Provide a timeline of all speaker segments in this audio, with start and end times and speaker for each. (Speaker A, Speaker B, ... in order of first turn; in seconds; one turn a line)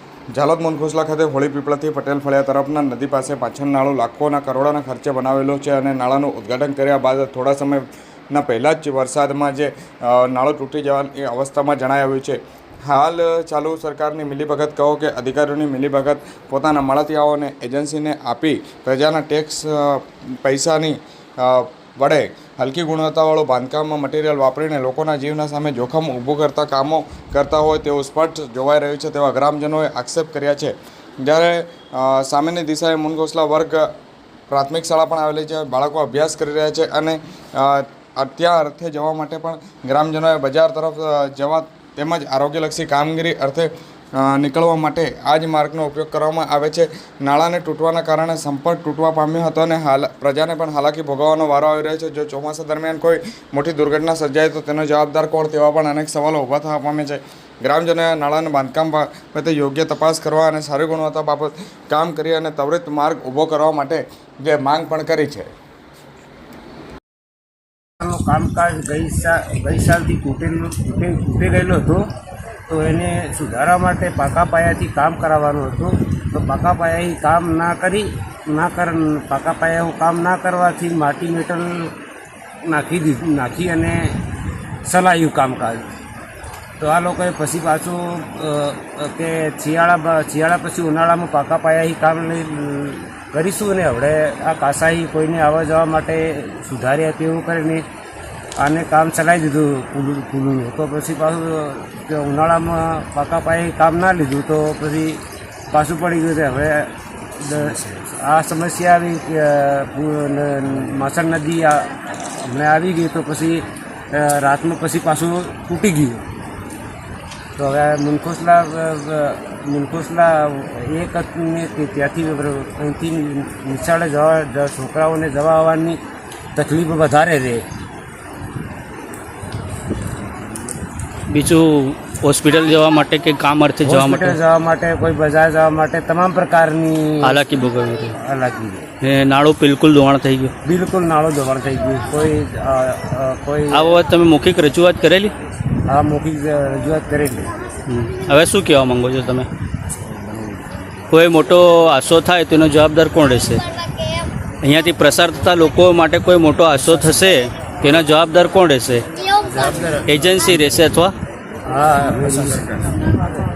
Speaker A: 0.3-33.9
Speaker A: 34.5-65.5
Speaker B: 68.0-72.1
Speaker B: 72.7-81.9
Speaker B: 82.6-84.2
Speaker B: 84.8-85.9
Speaker B: 86.8-97.8
Speaker B: 98.6-116.2
Speaker B: 117.6-126.0
Speaker B: 126.5-127.7
Speaker C: 131.3-134.4
Speaker B: 133.8-137.4
Speaker C: 137.2-138.1
Speaker B: 138.1-138.9
Speaker C: 139.0-140.5
Speaker B: 140.7-144.0
Speaker C: 143.7-145.3
Speaker B: 145.8-147.6
Speaker C: 147.9-149.5
Speaker C: 151.1-153.8
Speaker C: 154.6-159.1
Speaker B: 159.4-160.1
Speaker C: 160.0-161.1
Speaker B: 161.7-163.2